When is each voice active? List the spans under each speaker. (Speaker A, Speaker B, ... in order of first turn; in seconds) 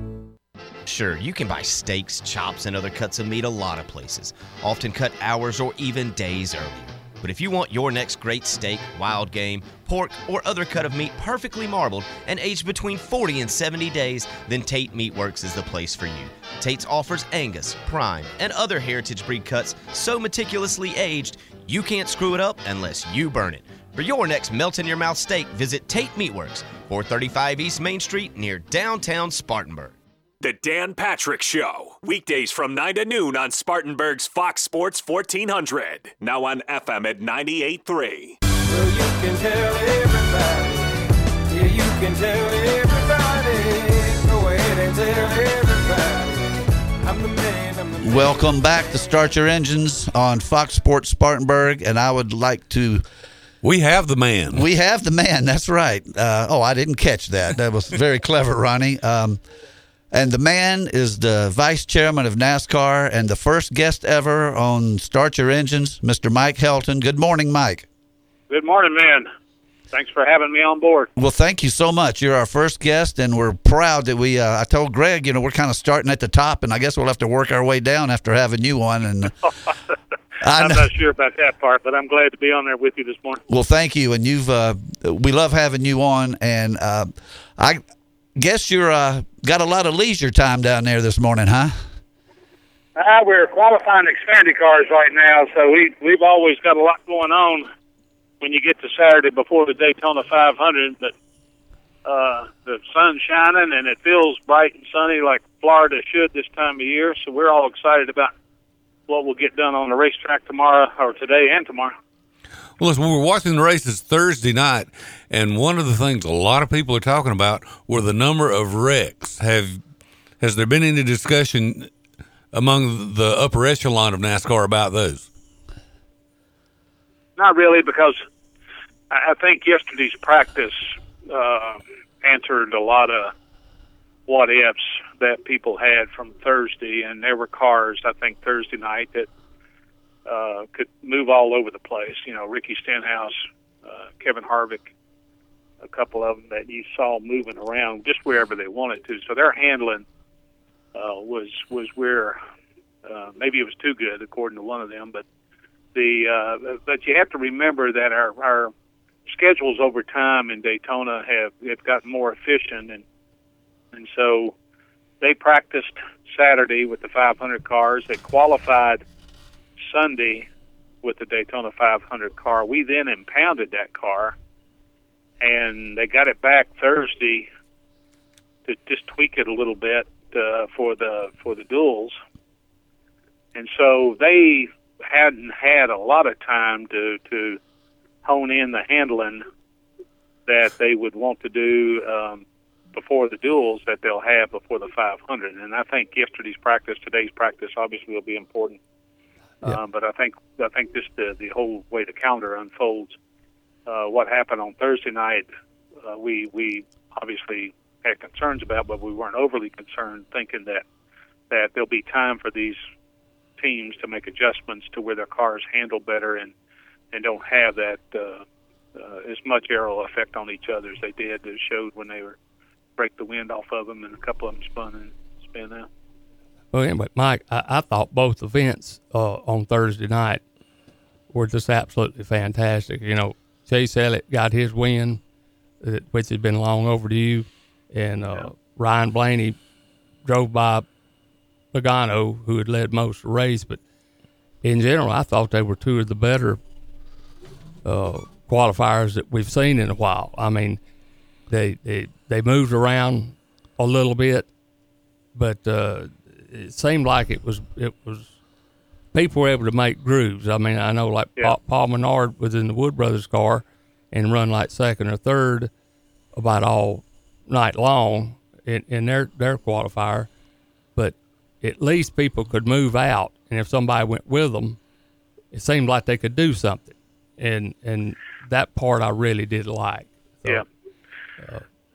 Speaker A: 0.8-29.9
Speaker B: 30.4-38.4
Speaker C: 38.9-40.6, 41.5-46.1, 47.1-47.9
Speaker D: 48.0-53.0, 54.5-59.4, 60.1-67.9, 71.2-79.3, 80.4-80.9, 83.5-87.8, 88.4-91.8
Speaker E: 53.6-54.6, 112.8-119.8, 120.4-121.9, 122.5-125.3
Speaker F: 68.5-69.3, 69.9-71.1, 80.5-83.4, 93.0-97.7, 98.4-101.1, 102.0-108.3, 109.1-111.9, 127.4-128.2, 129.1-133.3, 134.3-139.3, 140.2-144.9, 145.8-150.0, 150.9-152.4, 153.0-155.2, 155.9-158.7, 159.3-163.0, 163.9-164.5, 165.2-169.0, 169.8-170.5, 171.0-174.3, 175.4-177.5, 178.7-182.2, 183.5-187.6, 188.2-189.4, 190.5-198.8, 199.6-203.2, 203.8-205.5, 206.0-210.8, 211.5-212.8, 213.6-216.5, 217.1-218.4, 218.9-222.4, 223.0-225.9
Speaker G: 226.7-230.4, 231.3-235.2, 235.8-239.6, 240.2-240.8, 241.7-243.8, 244.6-246.6, 247.8-250.8, 251.5-254.5, 255.3-258.3, 259.1-265.7, 266.4-270.3, 270.9-274.8, 275.5-280.6